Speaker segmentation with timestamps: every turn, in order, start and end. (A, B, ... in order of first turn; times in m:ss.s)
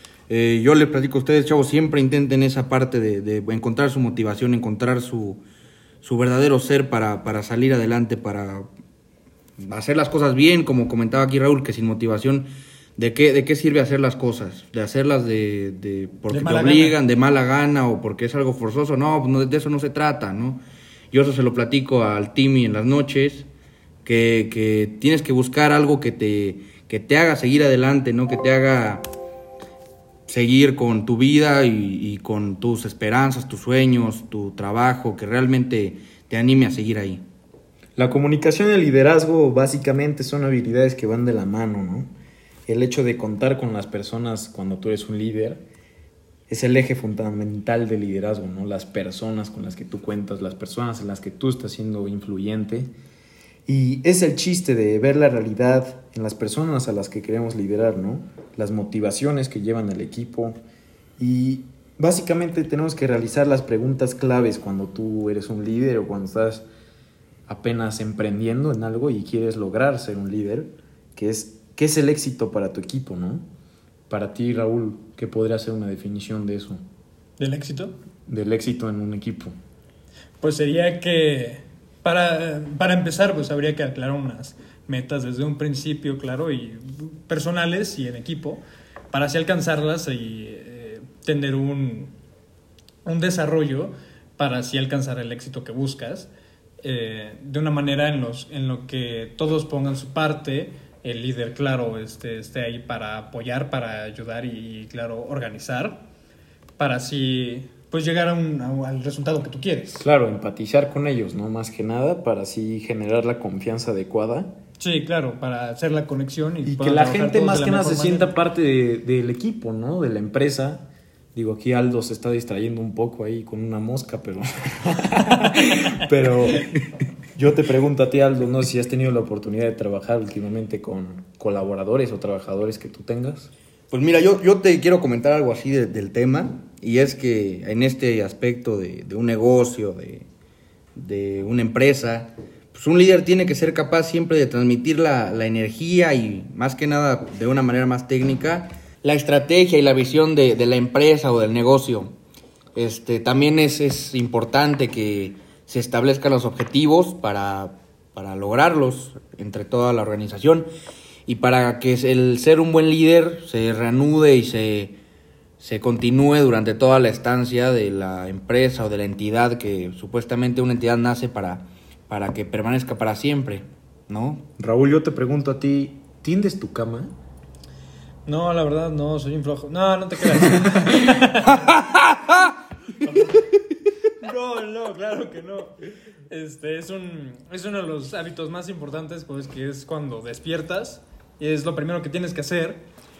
0:00.3-0:05.4 A
0:06.0-0:08.6 A
0:09.6-0:23.5 A
0:16.3-0:17.0 B
0:24.0-0:29.0 A
0:30.3-0:37.2 A
0:38.0-0:42.1 C
0:42.7-0:45.6 C
0:46.5-0:52.9 C
0:53.7-1:00.6 C
1:01.2-1:06.6 C
1:07.5-1:13.4 C
1:14.1-1:16.8 C
1:17.4-1:18.0 B
1:18.3-1:19.5 C
1:20.4-1:32.1 B
1:33.0-1:36.3 B
1:36.8-1:46.0 B
1:46.8-1:50.0 B
1:50.0-1:54.5 C
1:54.8-1:58.3 B
1:56.6-2:06.7 C
2:07.3-2:13.5 C
2:13.9-2:20.3 A
2:21.0-2:32.1 A
2:32.8-2:40.7 A
2:41.3-2:45.0 A
2:45.6-2:54.4 A
2:54.6-2:57.1 C
2:58.2-3:01.7 B
3:01.7-3:02.5 A
3:03.0-3:03.4 B
3:04.2-3:05.8 B
3:06.3-3:12.9 B